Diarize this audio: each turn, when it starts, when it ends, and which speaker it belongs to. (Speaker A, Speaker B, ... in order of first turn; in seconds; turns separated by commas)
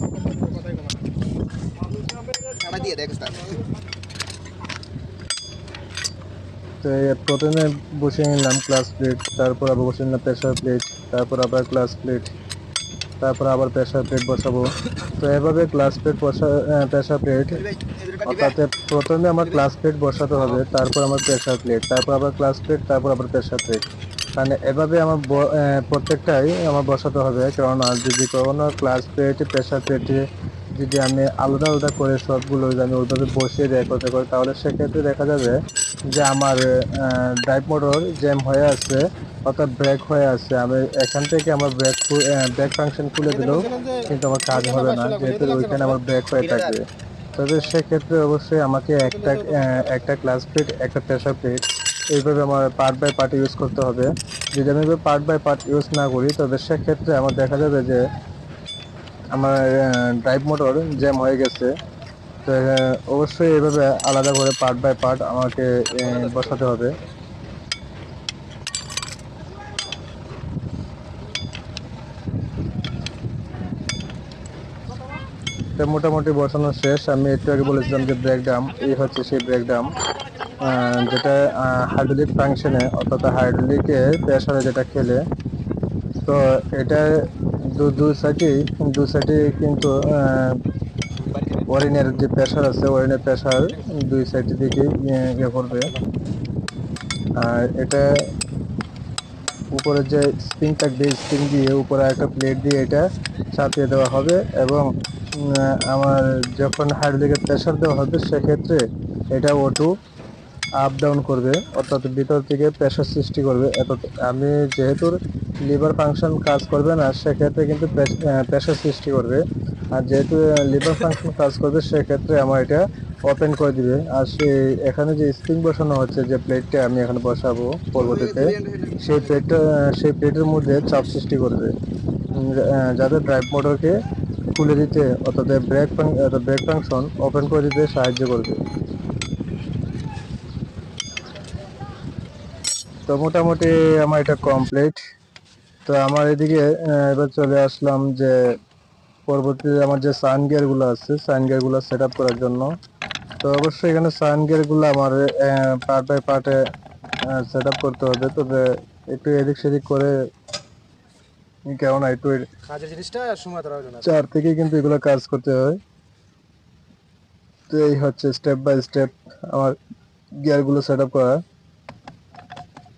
Speaker A: 2.4-3.6, Speaker B: 6.8-12.3, Speaker B: 13.2-17.7, Speaker A: 17.5-18.6, Speaker B: 18.2-23.8, Speaker B: 24.3-35.6, Speaker B: 36.1-46.8, Speaker C: 43.7-44.0, Speaker C: 44.6-45.9, Speaker A: 46.4-46.8, Speaker B: 47.3-58.0, Speaker C: 49.2-49.7, Speaker B: 59.3-61.7, Speaker B: 62.4-67.0, Speaker B: 75.8-79.9, Speaker B: 80.6-85.2, Speaker B: 86.2-90.6, Speaker A: 91.2-91.7, Speaker B: 91.7-95.9, Speaker B: 97.4-98.0, Speaker B: 99.7-104.9, Speaker B: 105.4-109.9, Speaker B: 110.8-119.4, Speaker B: 119.9-131.7, Speaker A: 127.9-129.4, Speaker B: 132.3-133.9, Speaker B: 134.5-138.6, Speaker B: 143.1-145.0, Speaker B: 145.8-148.3, Speaker B: 149.3-152.7, Speaker B: 153.4-156.6, Speaker B: 157.3-160.1, Speaker B: 161.7-162.5, Speaker C: 162.6-164.1, Speaker B: 164.0-165.8, Speaker B: 167.7-169.8, Speaker B: 170.4-171.4